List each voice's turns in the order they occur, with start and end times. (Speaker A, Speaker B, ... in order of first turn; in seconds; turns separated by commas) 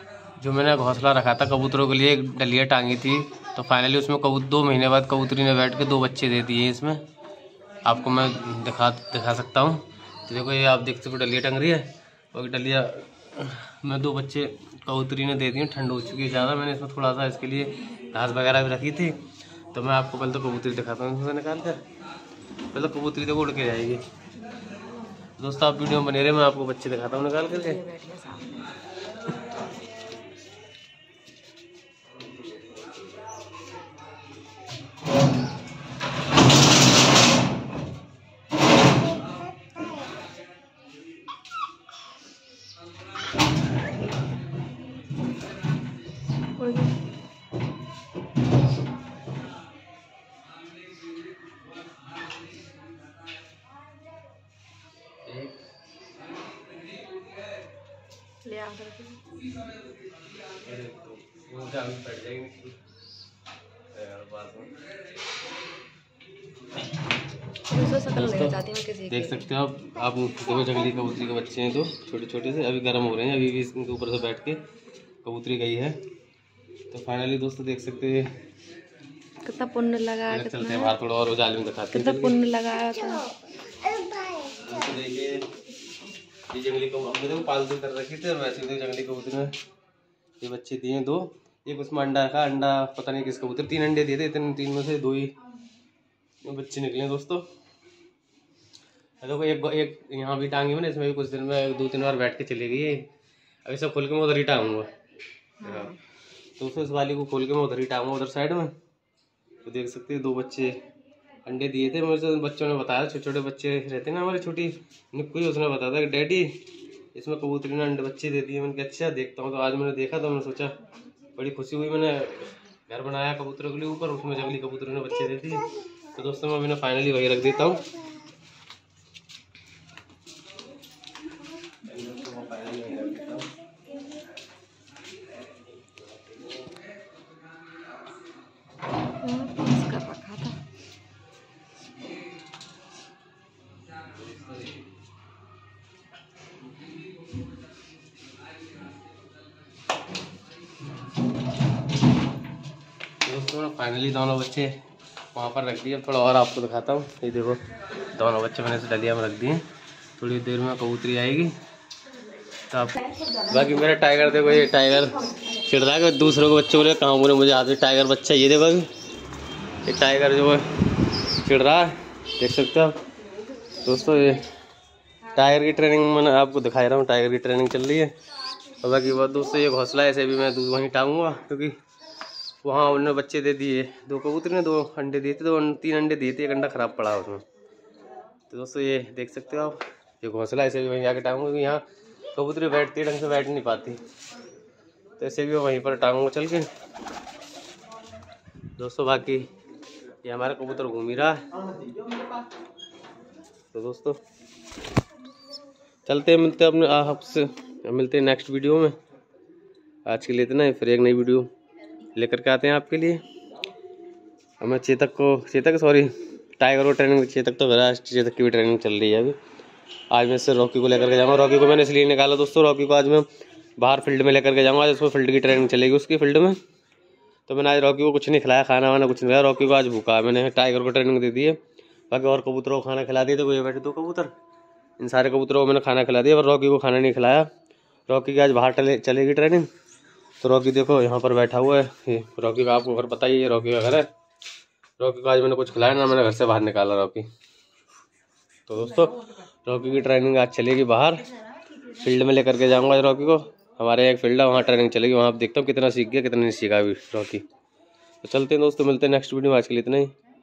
Speaker A: 0.4-7.0, Speaker A: 7.8-19.2, Speaker A: 19.7-21.8, Speaker A: 22.7-24.0, Speaker A: 25.4-27.8, Speaker B: 27.6-28.6, Speaker B: 46.6-46.9, Speaker A: 55.2-55.6, Speaker B: 58.4-59.2, Speaker A: 60.5-62.8, Speaker A: 63.9-64.7, Speaker B: 67.7-69.4, Speaker A: 68.1-68.6, Speaker A: 69.1-74.6, Speaker A: 75.2-76.0, Speaker A: 76.9-78.3, Speaker B: 79.4-80.9, Speaker A: 80.3-82.3, Speaker B: 81.9-83.3, Speaker A: 84.4-85.5, Speaker A: 86.5-89.5, Speaker A: 90.4-95.3, Speaker A: 96.4-97.5, Speaker A: 99.2-103.1, Speaker A: 103.6-104.9, Speaker A: 105.6-106.0, Speaker B: 105.6-105.9, Speaker A: 106.6-108.7, Speaker A: 109.6-110.8, Speaker A: 111.5-116.6, Speaker A: 117.1-120.8, Speaker A: 121.3-127.9, Speaker A: 131.8-133.5, Speaker B: 139.2-140.6, Speaker A: 153.2-154.7, Speaker A: 155.3-159.7, Speaker A: 160.2-161.6, Speaker A: 162.7-168.9, Speaker A: 169.8-170.7, Speaker A: 171.3-173.0, Speaker A: 173.8-174.5, Speaker A: 175.3-178.1, Speaker A: 178.8-181.8, Speaker A: 182.6-187.4, Speaker A: 188.5-194.0, Speaker A: 195.2-196.7, Speaker A: 198.8-199.5, Speaker A: 200.2-201.5, Speaker A: 203.7-204.2, Speaker A: 206.1-209.0, Speaker A: 210.1-211.5, Speaker A: 212.1-213.2, Speaker A: 214.6-219.4, Speaker A: 220.1-223.3, Speaker A: 223.8-226.6, Speaker A: 227.5-231.6, Speaker A: 232.1-234.3, Speaker A: 235.0-237.5, Speaker A: 238.1-239.7, Speaker A: 240.4-244.1, Speaker A: 245.0-247.3, Speaker A: 248.7-251.2, Speaker A: 251.9-257.4, Speaker A: 258.2-260.1